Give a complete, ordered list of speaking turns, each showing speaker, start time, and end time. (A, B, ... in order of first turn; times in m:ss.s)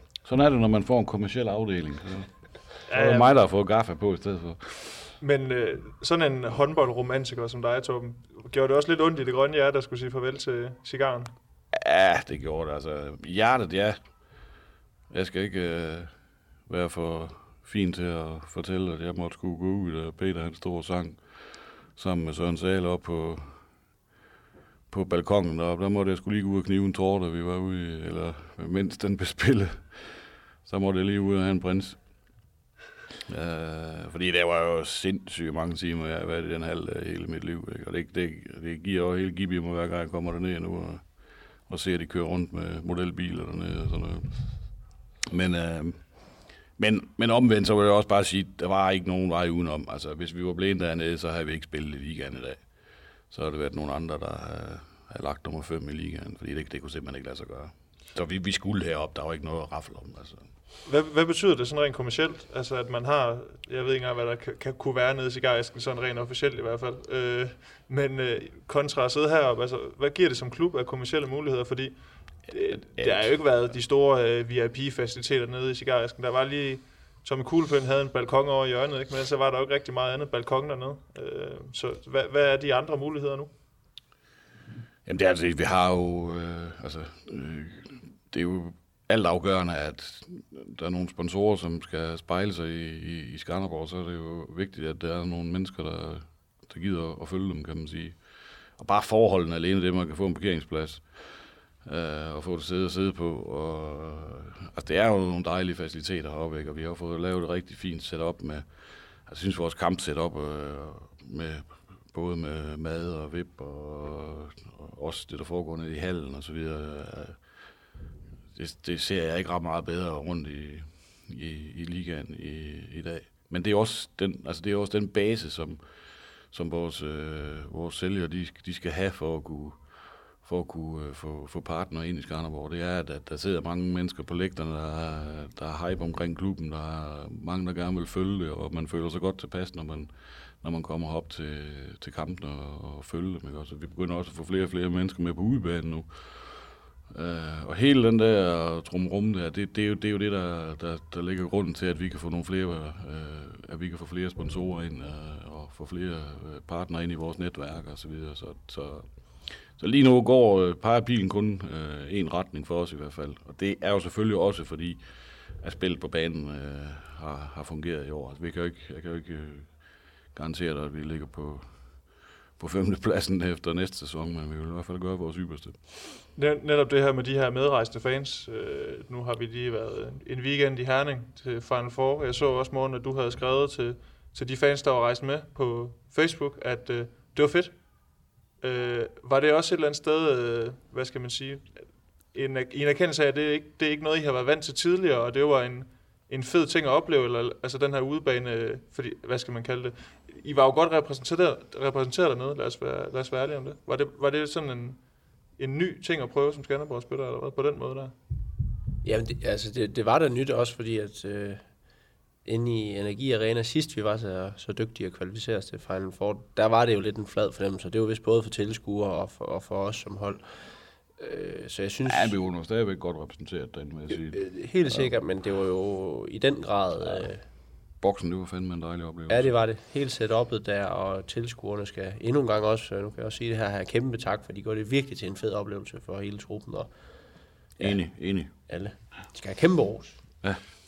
0:00.2-0:05.1 A
0:02.9-0:03.4 B
0:05.2-0:11.3 B
0:11.7-0:14.0 A
0:15.1-0:16.1 A
0:16.7-0:23.6 A
0:24.9-0:32.0 A
0:33.3-0:44.6 A
0:45.2-0:52.6 A
0:53.3-1:00.5 A
1:00.8-1:23.5 B
1:13.0-1:13.3 A
1:25.0-1:38.2 A
1:38.8-1:48.7 A
1:49.2-1:57.4 A
1:58.5-2:05.8 A
2:06.4-2:45.0 A
2:45.5-2:49.8 A
2:50.3-2:55.8 A
2:56.3-3:07.8 B
3:08.6-3:25.0 B
3:25.6-3:28.1 B
3:29.0-3:31.6 C
3:32.4-3:42.4 C
3:42.0-3:45.1 A
3:44.3-3:47.4 C
3:48.0-3:49.5 A
3:49.3-3:56.9 C
3:57.8-3:58.5 A
3:58.5-4:00.2 C